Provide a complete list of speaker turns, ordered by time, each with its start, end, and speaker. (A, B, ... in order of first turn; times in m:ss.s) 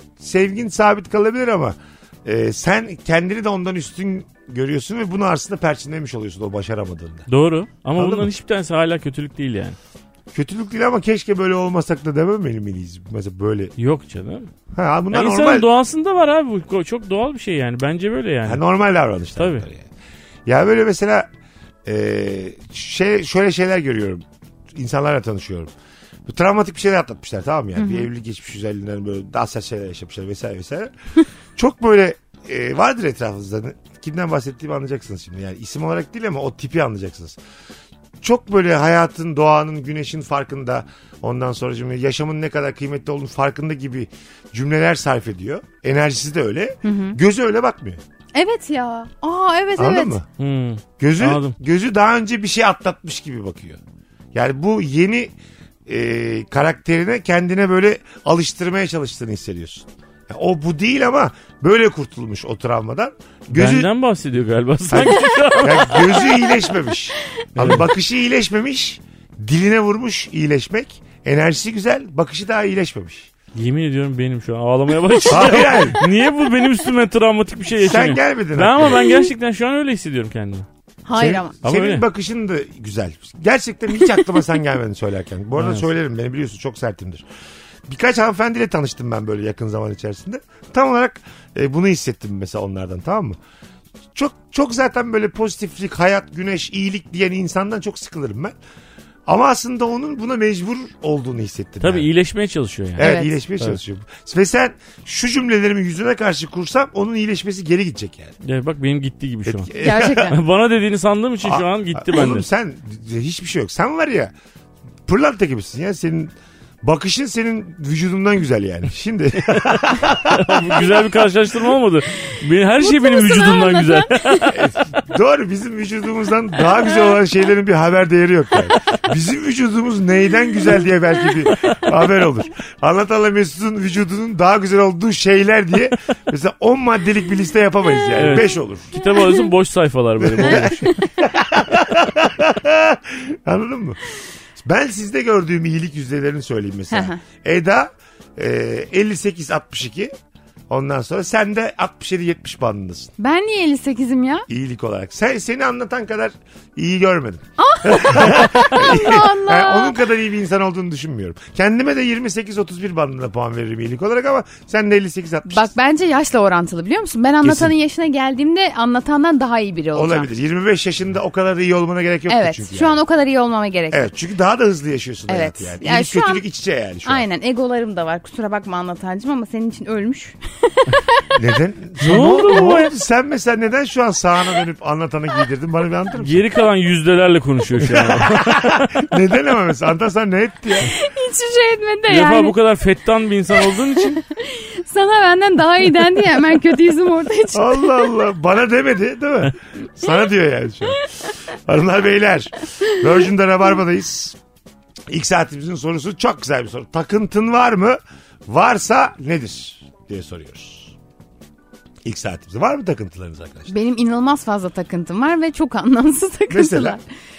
0:00.2-0:07.3 A
0:07.3-0:09.8 B
0:08.0-0:08.3 A
0:10.3-0:13.7 A
0:13.8-0:14.5 B
0:14.7-0:15.7 A
0:15.1-0:18.6 B
0:18.4-0:19.9 A
0:19.4-0:19.6 B
0:20.4-0:21.3 A
0:21.8-0:25.7 A
0:26.2-0:30.9 A
0:27.8-0:28.0 C
0:31.6-0:37.4 A
0:38.2-0:48.0 A
0:46.8-0:47.2 C
0:48.3-0:50.2 C
0:49.8-0:50.2 A
0:50.4-0:51.6 B
0:51.0-0:53.8 A
0:54.3-0:55.3 A
0:55.9-1:03.9 A
1:03.5-1:06.3 B
1:04.9-1:13.3 A
1:05.9-1:07.2 C
1:07.5-1:07.8 B
1:13.5-1:20.6 B
1:15.3-1:16.0 A
1:17.7-1:19.0 A
1:21.0-1:21.5 C
1:21.1-1:27.2 A
1:21.6-1:22.0 B
1:25.6-1:25.9 B
1:27.9-1:33.4 A
1:34.1-1:38.6 A
1:39.3-1:42.1 A
1:41.8-1:43.8 B
1:43.0-1:48.3 A
1:43.0-1:43.3 C
1:48.4-1:52.4 B
1:49.4-1:50.3 A
1:49.8-1:50.4 C
1:51.4-1:54.3 A
1:55.0-2:01.1 A
1:59.4-2:04.6 B
2:02.8-2:04.5 C
2:04.5-2:19.0 A
2:11.5-2:11.8 B
2:18.1-2:21.0 B
2:20.2-2:24.0 A
2:20.4-2:21.1 C
2:24.6-2:30.1 A
2:26.9-2:27.2 C
2:30.7-2:33.1 A
2:33.2-2:34.5 C
2:34.5-2:45.7 A
2:37.6-2:40.0 C
2:45.5-2:50.3 C
2:47.4-2:47.7 A
2:49.9-2:53.0 A
2:52.3-2:54.0 C
2:53.9-2:57.2 A
2:55.3-2:56.4 C
2:57.0-3:01.3 C
3:01.4-3:06.4 A
3:02.0-3:02.9 B
3:06.2-3:09.0 B
3:07.8-3:10.9 A
3:10.8-3:12.5 C
3:12.1-3:14.2 B
3:13.7-3:18.2 C
3:17.5-3:24.4 A
3:20.9-3:21.3 C
3:25.1-3:30.9 A
3:32.0-3:33.7 A
3:33.7-3:37.0 C
3:36.5-3:37.0 A